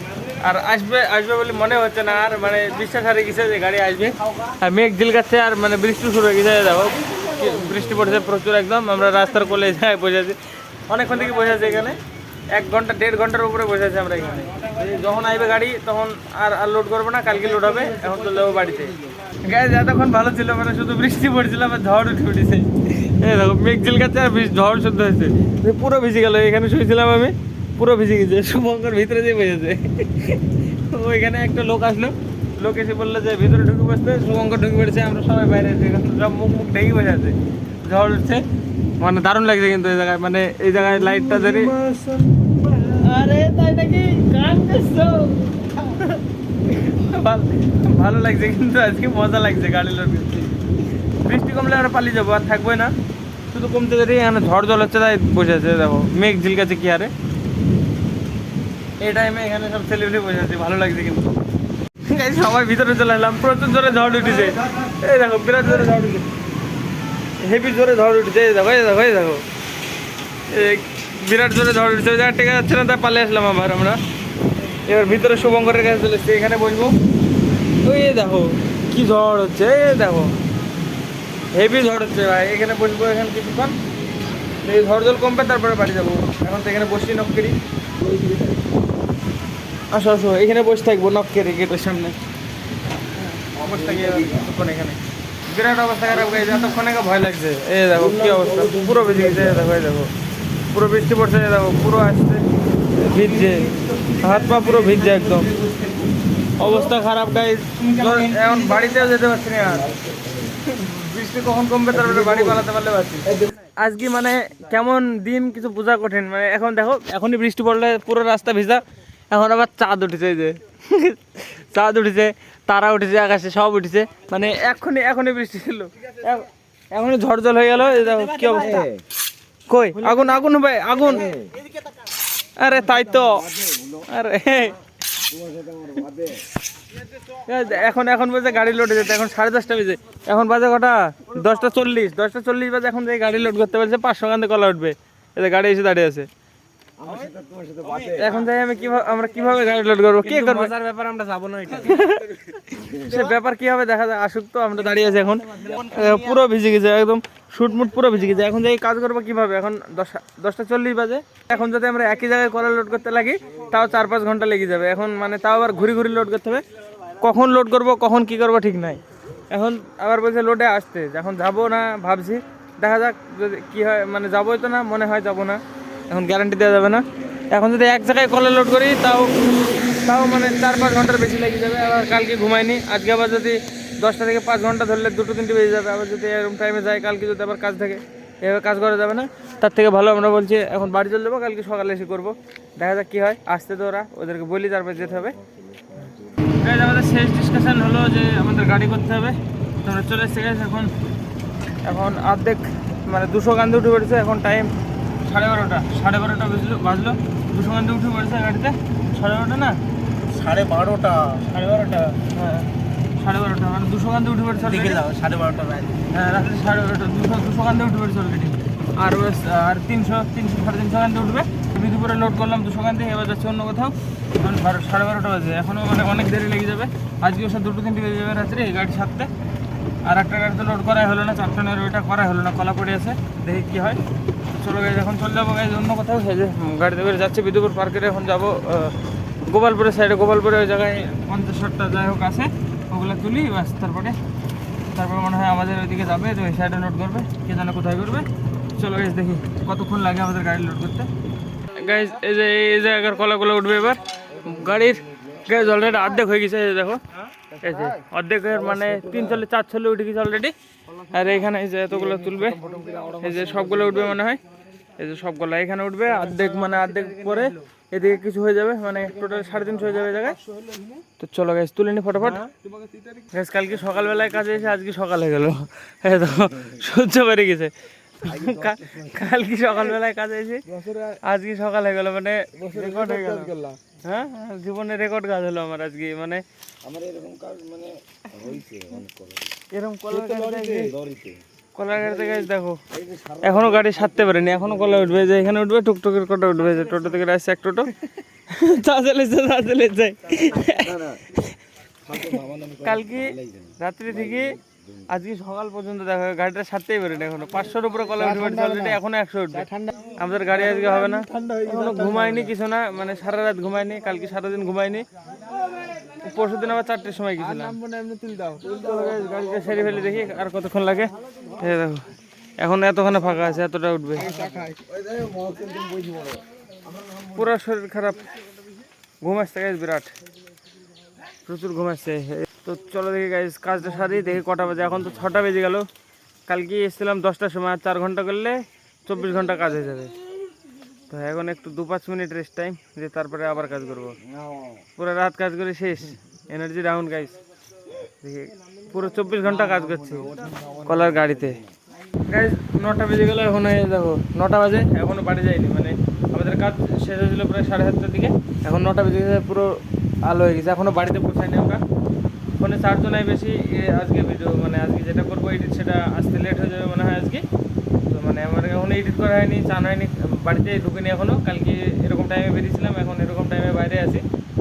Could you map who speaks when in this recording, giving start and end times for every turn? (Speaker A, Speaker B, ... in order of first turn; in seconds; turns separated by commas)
Speaker A: 0.4-38.5, Speaker A: 39.0-41.8, Speaker B: 40.8-42.6, Speaker A: 42.8-52.9, Speaker A: 53.5-57.1, Speaker A: 59.0-61.4, Speaker A: 62.0-66.3, Speaker A: 67.4-69.4, Speaker A: 70.5-74.0, Speaker A: 74.7-77.0, Speaker A: 77.8-80.3, Speaker A: 81.5-83.8, Speaker A: 84.6-87.6, Speaker C: 87.9-88.8, Speaker A: 89.9-92.2, Speaker C: 93.3-94.5, Speaker A: 93.5-100.1, Speaker C: 97.9-99.7, Speaker A: 100.7-103.7, Speaker B: 103.4-105.9, Speaker A: 104.2-105.5, Speaker C: 105.6-106.0, Speaker A: 106.6-109.9, Speaker B: 107.8-109.0, Speaker C: 109.7-110.6, Speaker A: 110.6-128.9, Speaker C: 111.9-112.6, Speaker C: 128.6-129.0, Speaker A: 129.7-131.3, Speaker C: 131.1-131.6, Speaker A: 132.6-133.5, Speaker C: 133.2-134.1, Speaker A: 134.1-134.8, Speaker C: 135.2-136.4, Speaker A: 137.2-146.3, Speaker C: 147.0-148.4, Speaker A: 148.1-150.8, Speaker B: 150.3-152.0, Speaker A: 151.5-166.6, Speaker C: 152.7-153.1, Speaker A: 167.2-195.4, Speaker C: 195.3-196.2, Speaker A: 196.6-200.9, Speaker A: 201.8-204.7, Speaker A: 205.2-209.8, Speaker B: 210.3-211.9, Speaker A: 211.6-215.1, Speaker B: 214.7-216.0, Speaker A: 216.0-229.3, Speaker A: 230.1-234.0, Speaker A: 234.6-244.2, Speaker A: 244.9-251.1, Speaker A: 251.7-257.0, Speaker C: 254.3-255.7, Speaker A: 257.6-260.6, Speaker C: 257.7-258.0, Speaker C: 258.5-259.4, Speaker A: 261.1-262.6, Speaker C: 261.9-264.2, Speaker A: 263.2-264.4, Speaker A: 265.0-270.4, Speaker B: 270.4-271.0, Speaker A: 271.2-272.4, Speaker B: 272.3-273.3, Speaker A: 273.3-280.6, Speaker C: 278.2-279.2, Speaker B: 280.7-281.1, Speaker A: 281.2-286.4, Speaker C: 282.6-283.8, Speaker B: 282.7-283.7, Speaker C: 286.8-289.6, Speaker A: 289.7-290.9, Speaker B: 290.1-290.8, Speaker C: 290.7-291.4, Speaker A: 291.7-292.8, Speaker C: 291.9-295.3, Speaker A: 293.4-298.0, Speaker A: 298.5-301.6, Speaker C: 300.5-301.3, Speaker C: 302.0-305.1, Speaker A: 302.2-315.1, Speaker B: 308.2-308.9, Speaker B: 309.6-312.4, Speaker A: 316.1-317.8, Speaker B: 317.4-319.2, Speaker C: 318.6-320.2, Speaker A: 318.7-324.4, Speaker B: 324.2-324.8, Speaker C: 324.3-327.4, Speaker A: 327.3-328.3, Speaker A: 329.2-330.1, Speaker A: 331.4-335.9, Speaker A: 336.4-340.1, Speaker A: 341.1-344.2, Speaker C: 344.2-344.8, Speaker A: 345.0-347.4, Speaker A: 348.2-350.3, Speaker C: 349.4-351.8, Speaker A: 350.8-351.6, Speaker A: 352.2-361.8, Speaker A: 362.6-367.4, Speaker A: 368.1-374.2